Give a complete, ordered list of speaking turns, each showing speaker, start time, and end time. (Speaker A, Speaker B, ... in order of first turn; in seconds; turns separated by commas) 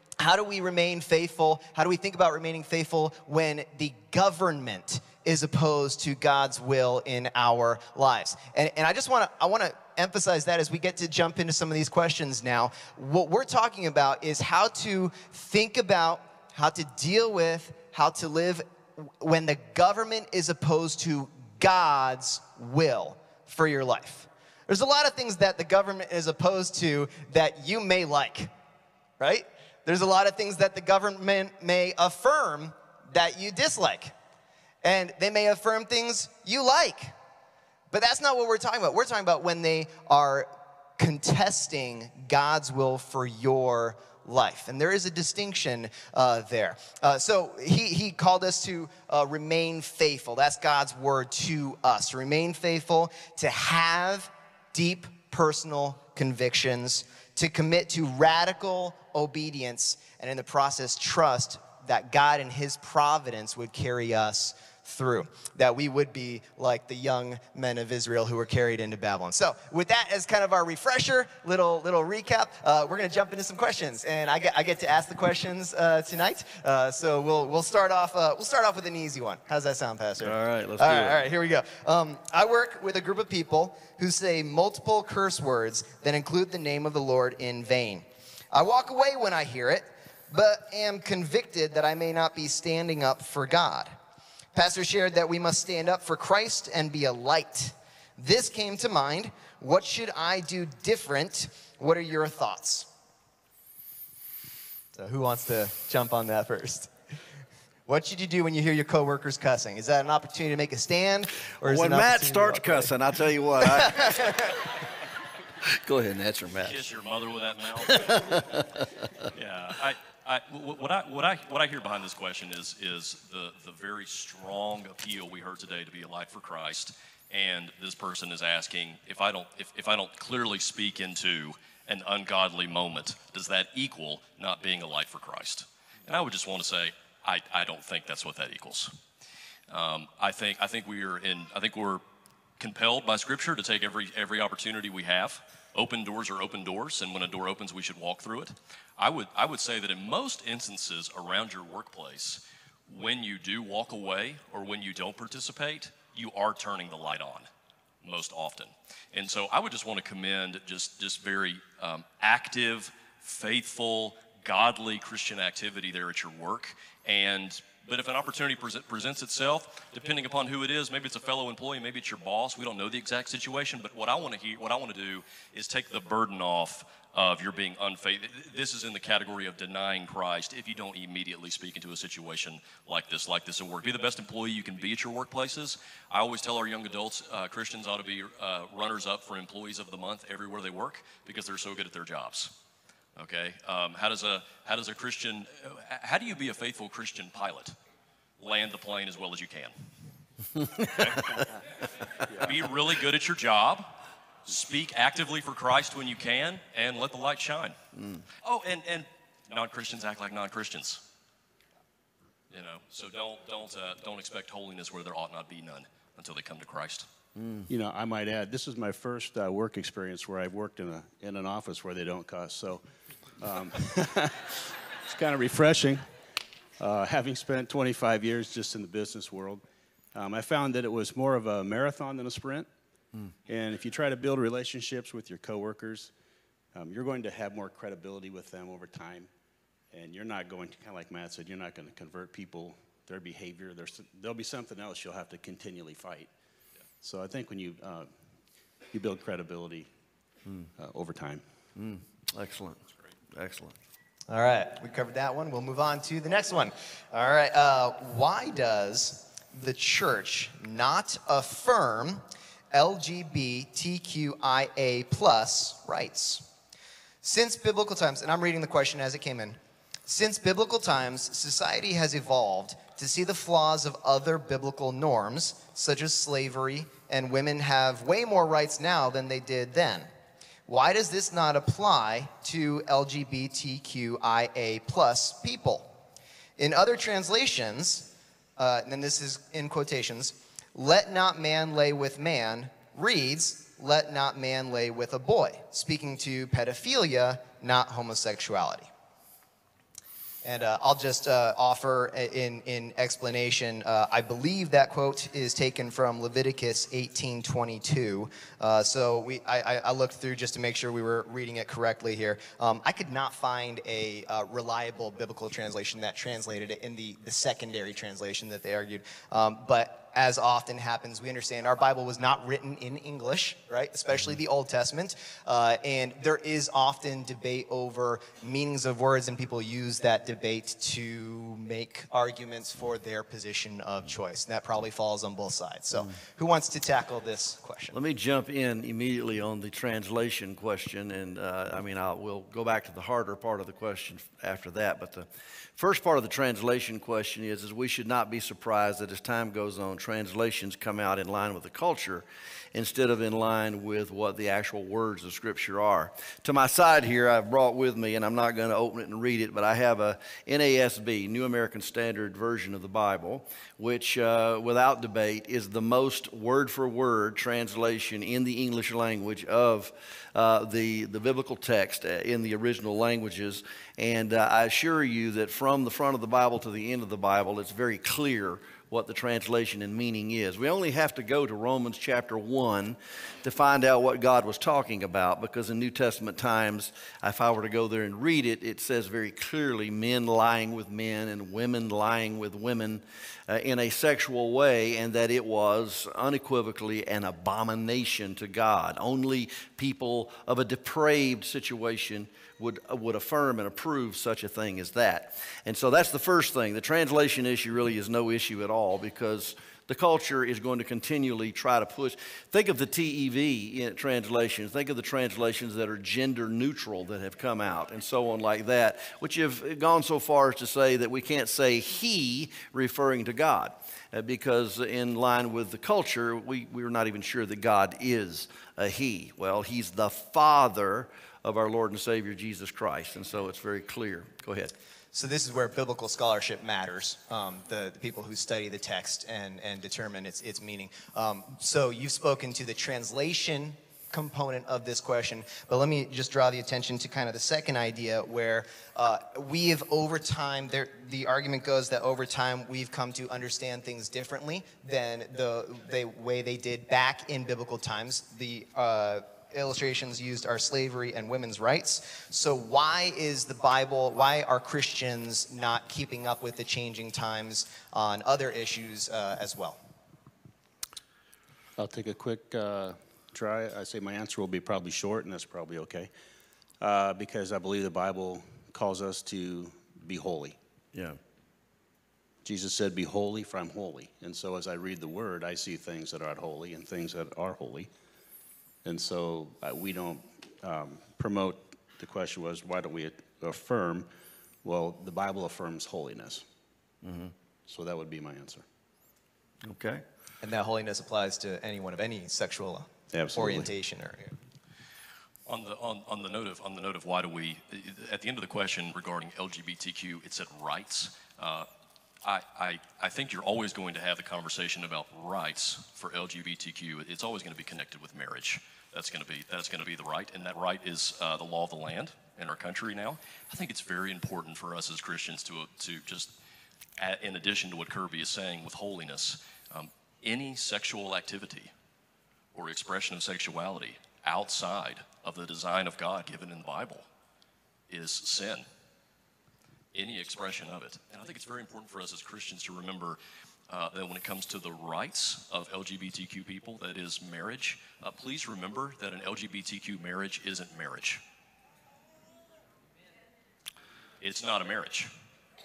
Speaker A: 0.2-28.5, Speaker A: 29.2-34.1, Speaker A: 34.8-37.1, Speaker A: 37.9-93.9, Speaker B: 80.2-81.2, Speaker A: 94.5-102.9, Speaker A: 104.9-106.9, Speaker A: 107.9-112.9, Speaker B: 111.6-114.5, Speaker A: 113.7-114.4, Speaker B: 115.6-116.8, Speaker C: 116.6-118.6, Speaker B: 117.8-119.3, Speaker C: 119.3-138.9, Speaker C: 139.7-142.0, Speaker C: 142.6-157.5, Speaker C: 158.0-192.5, Speaker C: 193.2-197.7, Speaker C: 198.4-199.7, Speaker C: 200.8-201.6, Speaker C: 202.2-203.9, Speaker C: 204.4-207.8, Speaker B: 207.9-208.2, Speaker C: 208.4-211.0, Speaker C: 212.5-217.1, Speaker B: 217.3-217.7, Speaker D: 217.7-222.8, Speaker D: 223.4-226.0, Speaker D: 226.8-229.6, Speaker D: 230.1-232.7, Speaker D: 233.5-236.1, Speaker D: 236.7-239.3, Speaker D: 239.9-246.3, Speaker D: 247.0-248.1, Speaker D: 248.9-249.9, Speaker D: 250.8-251.4, Speaker B: 251.7-252.8, Speaker B: 253.3-253.7, Speaker A: 254.3-266.4, Speaker A: 267.2-280.1, Speaker A: 280.7-285.9, Speaker A: 286.6-298.9, Speaker A: 300.4-337.9, Speaker B: 337.9-434.7, Speaker A: 435.1-469.8, Speaker D: 471.8-476.1, Speaker D: 476.8-480.6, Speaker B: 480.9-481.2, Speaker D: 482.4-487.9, Speaker D: 488.8-494.1, Speaker D: 494.6-496.4, Speaker B: 497.0-497.3, Speaker D: 497.7-498.6, Speaker B: 499.6-500.0, Speaker A: 500.4-504.3, Speaker D: 503.1-503.7, Speaker C: 505.4-511.7, Speaker C: 512.2-526.3, Speaker C: 527.0-531.7, Speaker C: 532.5-537.0, Speaker C: 537.9-538.6, Speaker C: 539.9-543.2, Speaker C: 543.7-551.2, Speaker C: 554.2-555.1